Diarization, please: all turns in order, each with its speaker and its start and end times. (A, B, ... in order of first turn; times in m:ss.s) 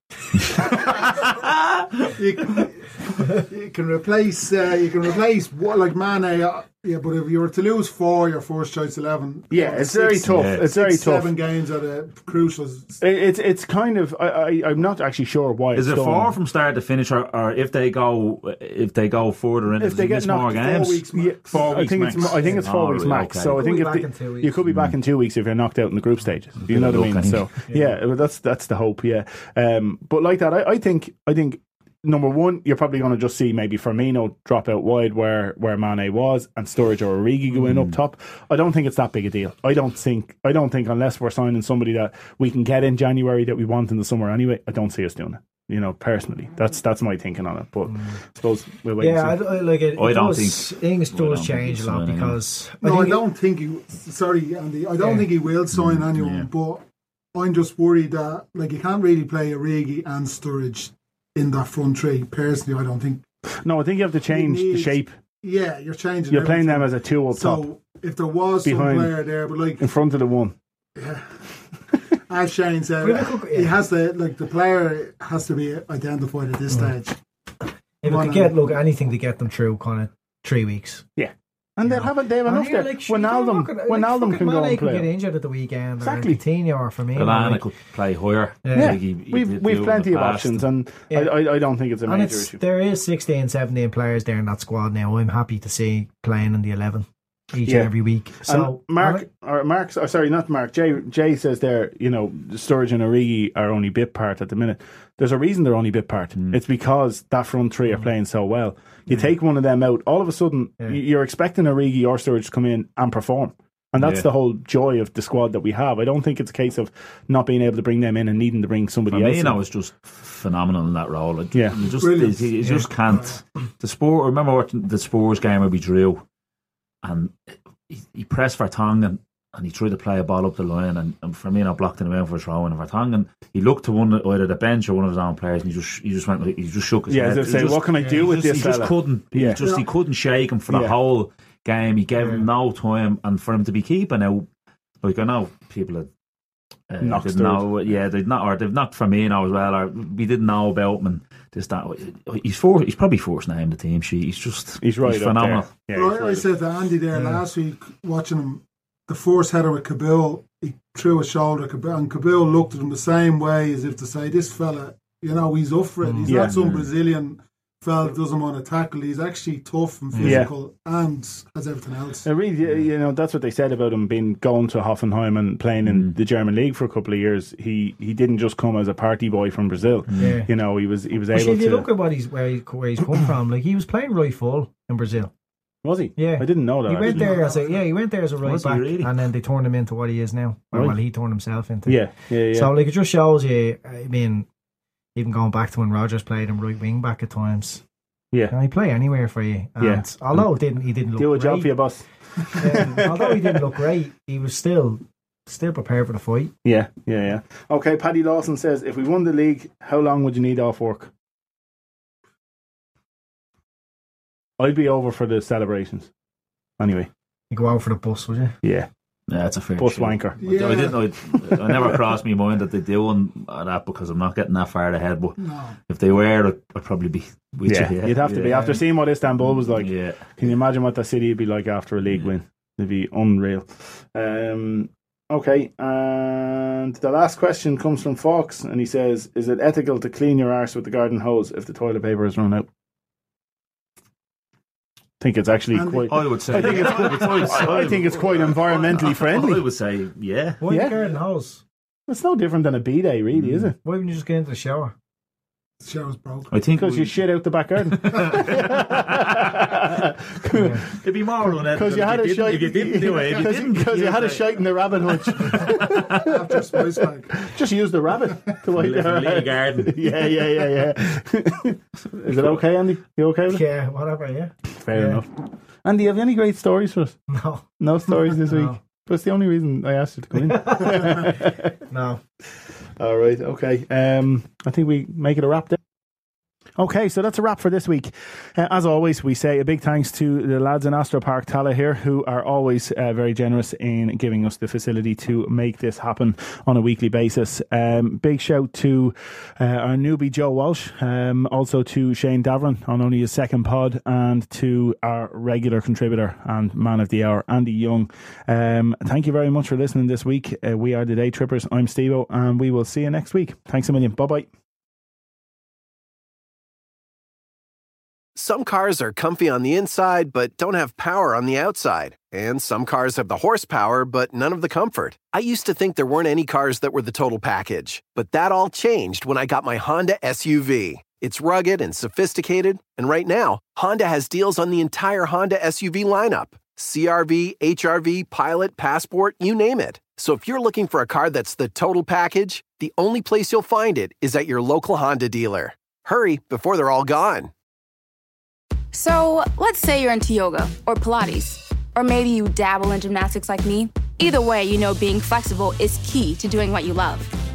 0:02.1-0:13.0 A
0:09.5-0:11.3 B
0:10.3-0:10.6 C
0:13.0-0:16.3 B
0:15.7-0:23.6 C
0:19.8-0:49.4 B
0:20.7-0:22.6 A
0:23.6-0:24.6 D
0:24.7-0:24.9 C
0:26.6-0:27.5 C
0:27.7-0:28.0 D
0:37.7-0:37.9 C
0:47.9-0:48.1 D
0:49.0-0:53.2 D
0:49.9-0:52.4 C
0:52.8-0:56.8 A
0:55.0-0:55.3 D
0:55.7-0:56.5 C
0:57.3-1:03.2 A
1:03.6-1:05.1 B
1:04.3-1:09.8 A
1:06.3-1:07.7 B
1:08.6-1:09.2 B
1:09.8-1:10.5 B
1:11.0-1:11.4 A
1:12.3-1:17.2 A
1:13.0-1:13.8 D
1:18.0-1:21.0 D
1:18.0-1:18.7 A
1:21.2-1:25.1 B
1:21.8-1:27.6 D
1:26.0-1:26.4 B
1:27.1-1:30.6 C
1:28.6-1:28.9 D
1:28.7-1:32.6 B
1:31.1-1:31.4 D
1:32.0-1:39.2 D
1:37.6-1:37.9 B
1:38.4-1:59.6 B
1:53.9-1:54.3 C
1:59.1-2:06.2 C
2:01.8-2:03.4 A
2:07.0-2:24.5 C
2:17.1-2:19.6 B
2:17.9-2:18.2 D
2:20.7-2:20.9 B
2:22.2-2:22.4 D
2:25.0-2:26.1 C
2:26.9-2:36.4 C
2:27.0-2:27.7 B
2:34.8-2:36.4 B
2:35.9-2:52.2 A
2:37.1-2:37.4 D
2:46.0-2:46.4 D
2:46.3-2:46.6 B
2:46.4-2:46.9 C
2:50.1-2:50.4 D
2:50.2-2:50.5 B
2:52.2-3:01.9 B
2:55.8-2:56.1 C
3:00.1-3:00.3 C
3:00.2-3:00.5 D
3:01.3-3:05.3 D
3:05.8-3:07.3 B
3:06.2-3:14.4 D
3:07.0-3:07.8 A
3:08.4-3:09.1 C
3:10.7-3:11.0 B
3:11.9-3:12.7 B
3:15.2-3:17.8 D
3:18.5-3:21.7 D
3:19.8-3:20.5 B
3:21.2-3:23.7 B
3:22.6-3:26.5 D
3:26.6-3:31.1 B
3:34.6-3:36.1 B
3:36.8-3:37.1 B
3:37.5-3:38.5 D
3:38.6-3:38.9 B
3:39.3-3:48.6 C
3:39.8-3:40.4 B
3:40.4-3:41.0 A
3:41.4-3:42.0 B
3:45.4-3:45.8 A
3:47.6-4:02.7 B
3:48.5-3:48.8 D
3:49.7-3:50.2 C
4:05.2-4:09.6 B
4:05.7-4:07.4 A
4:06.1-4:10.6 C
4:10.6-4:11.6 D
4:10.7-4:10.9 B
4:12.1-4:13.7 B
4:13.3-4:13.7 C
4:13.8-4:14.9 D
4:15.8-4:16.5 A
4:16.5-4:17.2 C
4:16.7-4:21.0 B
4:18.0-4:19.6 C
4:20.5-4:20.8 D
4:21.0-4:24.6 C
4:21.5-4:33.6 B
4:25.3-4:25.7 C
4:25.8-4:27.4 A
4:28.7-4:30.0 C
4:33.5-4:35.2 D
4:34.7-4:35.3 B
4:35.8-4:37.2 B
4:37.3-4:37.6 D
4:37.8-4:41.8 B
4:38.3-4:38.8 D
4:40.3-4:42.2 D
4:43.0-4:45.8 B
4:46.8-5:14.5 B
5:18.3-5:47.5 E
5:48.9-5:57.3 F